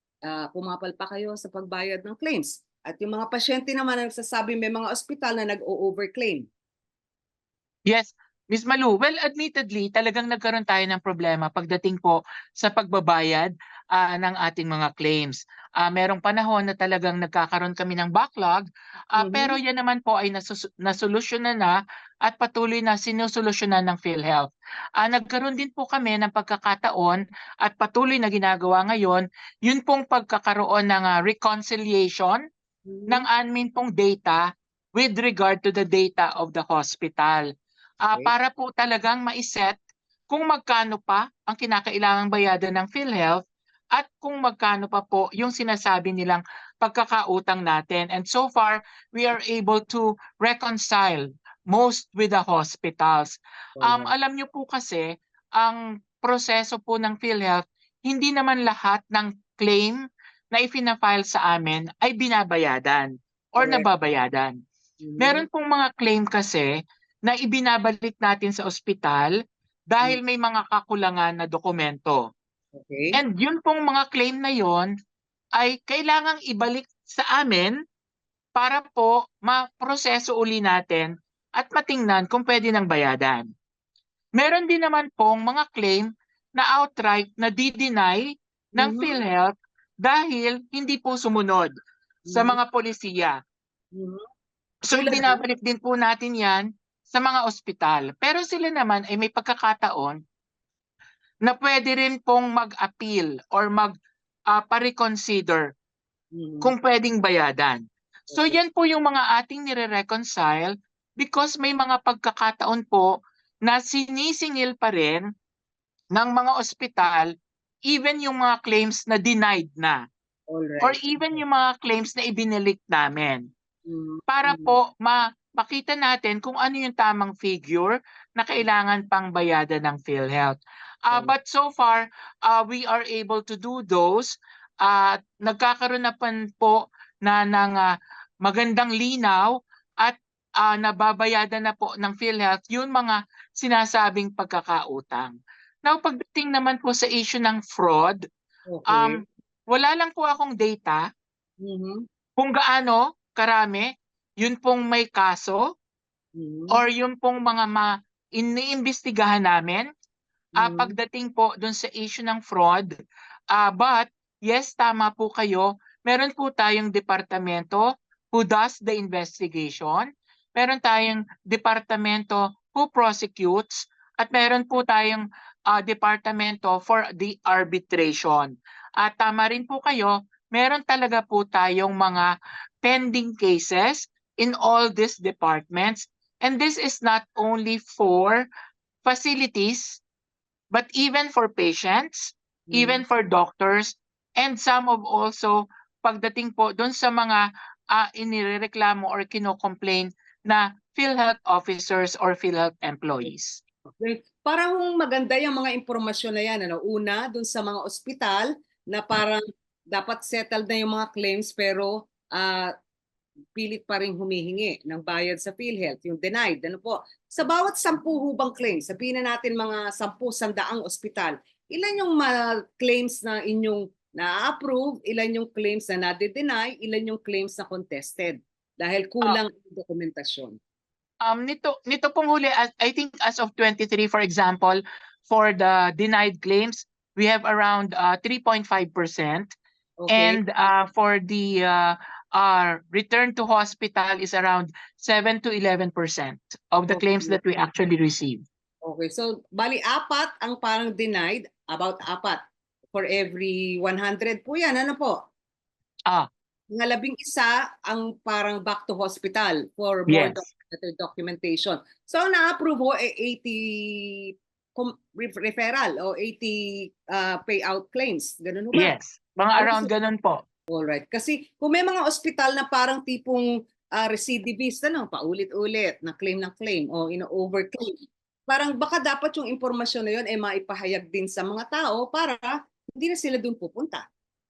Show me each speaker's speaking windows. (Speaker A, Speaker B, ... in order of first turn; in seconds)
Speaker A: 0.3-6.5, 19.1-19.6, 32.9-33.2, 53.8-54.1, 63.6-63.9, 65.0-65.5, 72.7-73.2, 88.8-89.1, 92.3-92.6, 93.9-94.2, 94.9-95.4, 106.3-106.7, 108.3-108.6, 120.5-121.4, 123.9-124.8, 148.7-149.2, 151.6-152.0, 156.3-156.8, 160.6-160.9, 192.7-193.0, 204.0-209.4, 209.9-212.7, 213.6-230.6, 240.0-240.4, 246.9-247.4, 248.8-252.4, 252.9-255.2, 256.7-268.9, 269.6-269.9, 270.7-277.9, 278.5-284.0
Speaker B: 7.9-32.4, 33.1-34.4, 35.0-37.5, 38.0-39.8, 40.3-60.0, 60.5-64.5, 65.2-66.7, 67.2-69.3, 69.9-72.2, 73.1-74.9, 75.5-77.7, 78.5-83.5, 84.3-91.7, 92.3-93.4, 94.9-100.2, 101.5-103.9, 104.5-105.7, 106.6-113.1, 113.7-115.2, 116.1-117.3, 117.9-120.0, 120.8-123.4, 124.3-134.3, 134.8-137.9, 138.4-139.5, 140.0-145.3, 145.8-148.2, 148.9-151.0, 152.4-153.9, 154.4-155.6, 156.7-159.9, 160.6-162.9, 163.5-182.3, 182.8-188.4, 189.0-190.0, 190.7-197.4, 197.9-203.6, 231.2-239.5, 240.1-248.4, 260.1-260.4, 268.7-270.4